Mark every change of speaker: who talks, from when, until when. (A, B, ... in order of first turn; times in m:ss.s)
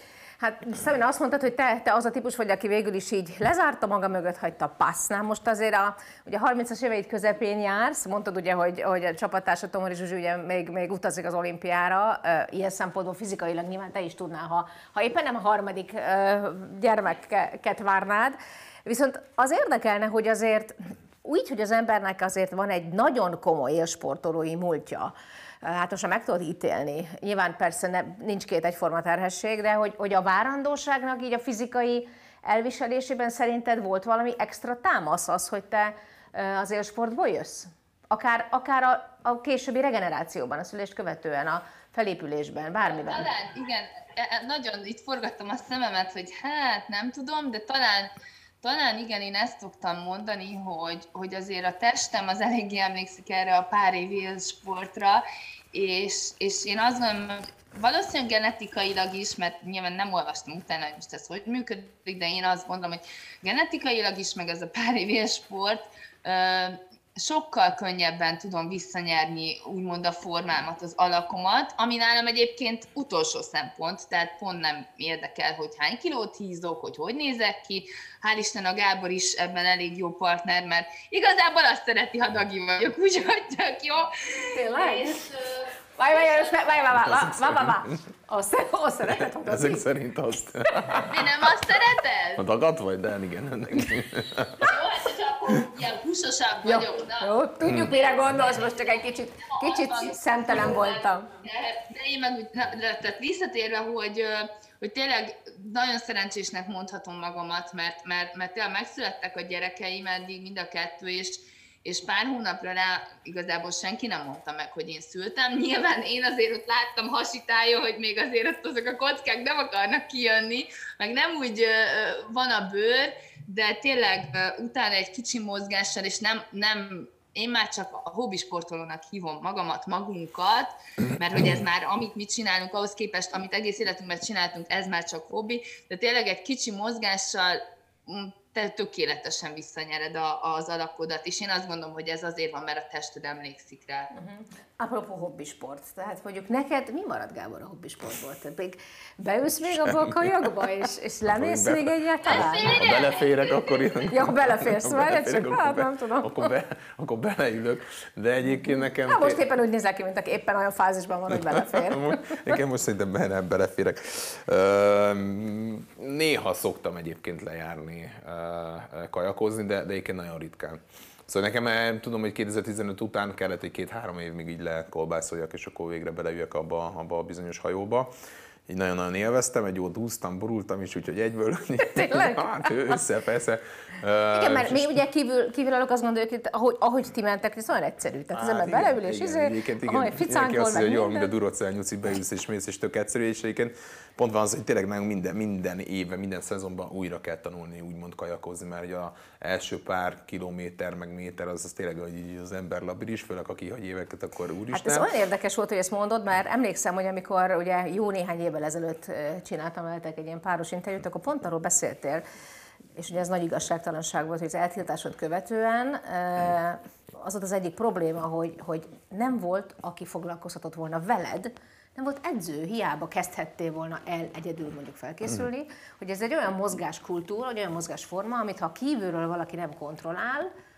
0:00.4-0:43.3 A
0:43.0-0:48.1 B
0:48.6-1:26.6 B
1:24.5-1:25.2 A
1:26.0-1:29.9 A
1:26.9-1:27.8 C
1:29.4-1:31.3 C
1:31.0-1:32.4 B
1:32.4-1:34.7 C
1:34.6-2:24.1 B
1:36.6-1:41.3 A
1:37.6-1:37.9 C
2:24.1-2:32.8 A
2:29.7-2:30.5 C
2:31.3-2:39.4 C
2:32.2-2:34.0 B
2:34.1-2:36.5 A
2:38.5-2:42.5 A
2:41.4-2:58.1 C
2:58.7-3:05.0 C
3:01.8-3:03.0 A
3:04.3-3:11.3 A
3:08.3-3:25.1 C
3:24.7-3:32.2 A
3:33.0-3:50.5 A